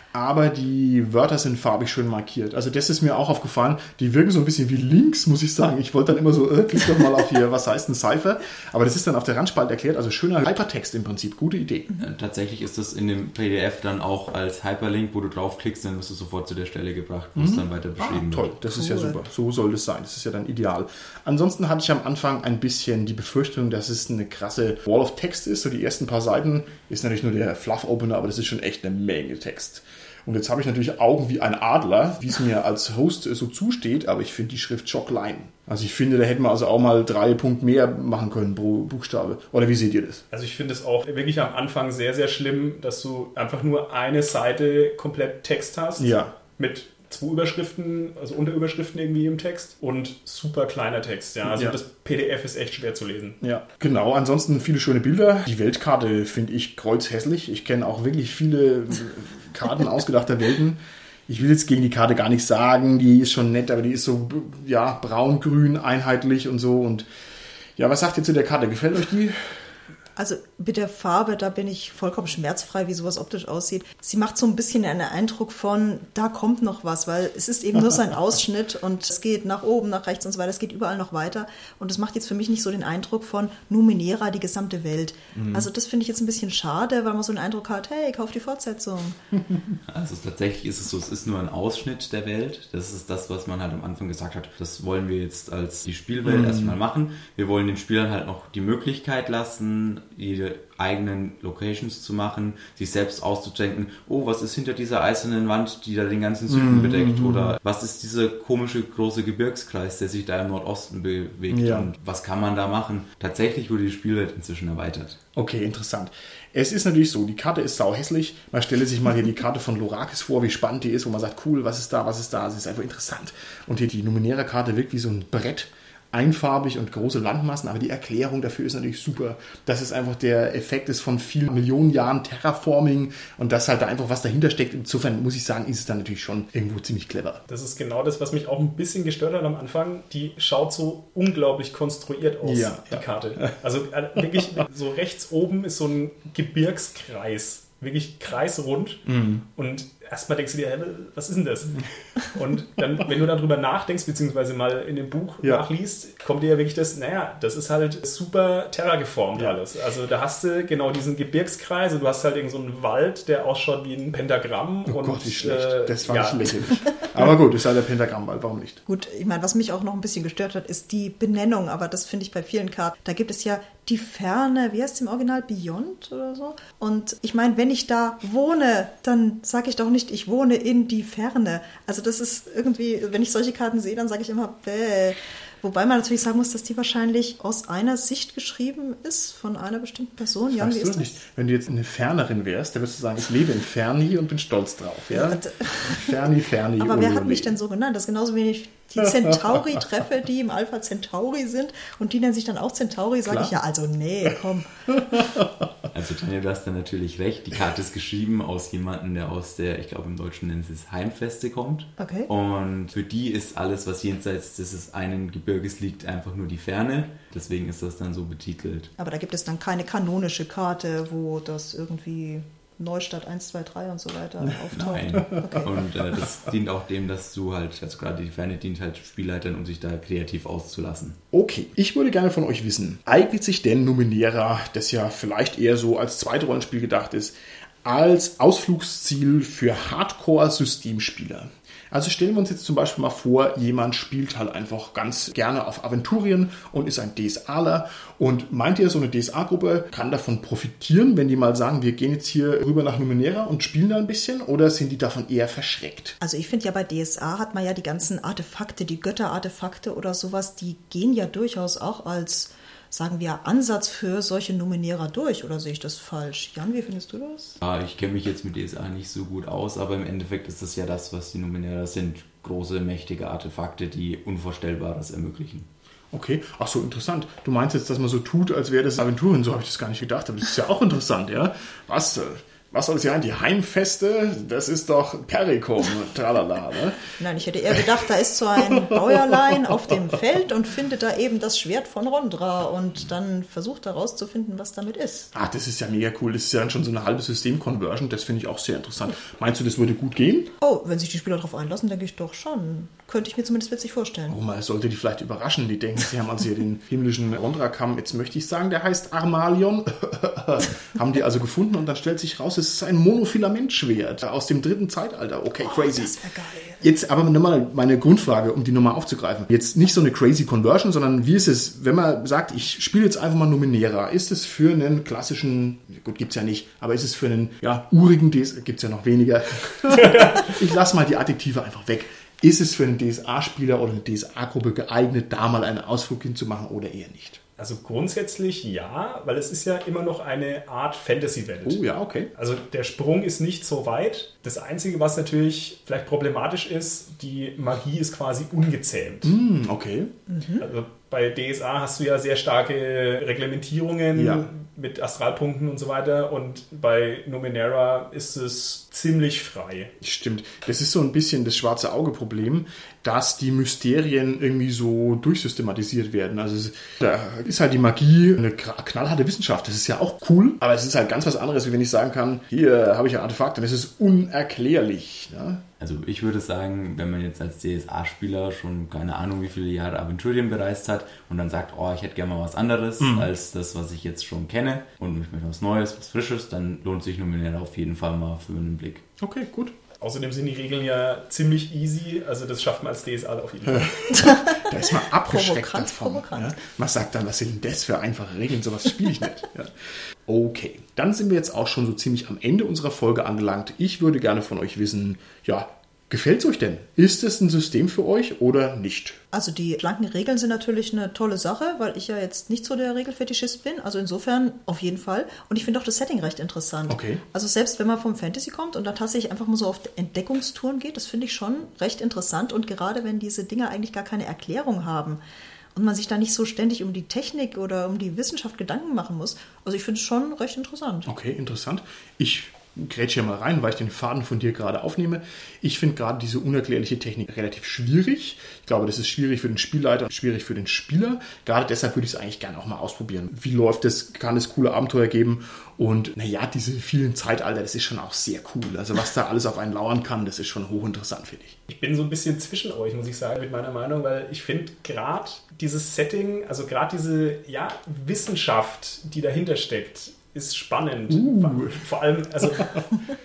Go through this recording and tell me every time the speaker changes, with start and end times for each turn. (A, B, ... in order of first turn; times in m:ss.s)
0:00.1-0:11.9 A
0:12.0-0:18.5 B
0:17.4-0:40.2 A
0:18.7-0:19.2 C
0:40.3-0:53.4 D
0:46.0-0:46.3 A
0:51.4-0:51.8 A
0:53.4-1:07.1 A
1:07.8-1:09.5 A
1:10.2-1:29.2 C
1:25.3-1:25.7 A
1:29.9-1:55.2 B
1:36.2-1:36.8 A
1:46.5-1:47.6 A
1:51.5-1:51.9 A
1:55.4-2:17.4 A
2:17.5-2:46.6 D
2:22.4-2:23.6 A
2:29.1-2:29.4 A
2:44.9-2:48.8 A
2:48.9-3:11.2 C
3:10.6-3:17.6 A
3:15.1-3:16.1 C
3:16.8-3:24.7 C
3:25.9-3:38.9 B
3:32.0-3:32.3 C
3:39.0-3:45.8 C
3:44.7-3:51.2 B
3:45.2-3:45.6 A
3:51.3-4:16.2 A
4:16.2-4:27.6 C
4:27.6-4:35.7 B
4:36.1-4:47.0 A
4:47.2-4:55.3 C
4:48.8-4:49.2 A
4:55.3-5:00.5 A
5:00.6-5:04.4 C
5:04.3-5:16.2 A
5:15.6-5:16.9 C
5:16.8-5:37.4 A
5:30.0-5:30.4 D
5:37.6-5:49.3 D
5:41.6-5:42.3 A
5:49.2-5:50.1 A
5:50.3-5:50.6 C
5:50.6-5:59.9 D
5:54.1-5:54.5 A
6:00.0-6:15.6 A
6:15.8-6:29.0 B
6:23.0-6:23.3 A
6:29.2-6:29.7 A
6:30.0-6:33.9 D
6:33.7-6:39.7 A
6:34.2-6:34.6 C
6:35.3-6:36.6 C
6:40.3-6:49.2 A
6:49.3-7:05.2 C
6:56.9-6:57.2 A
7:05.8-7:11.1 C
7:11.1-7:31.6 A
7:31.7-7:43.0 D
7:41.1-7:41.8 A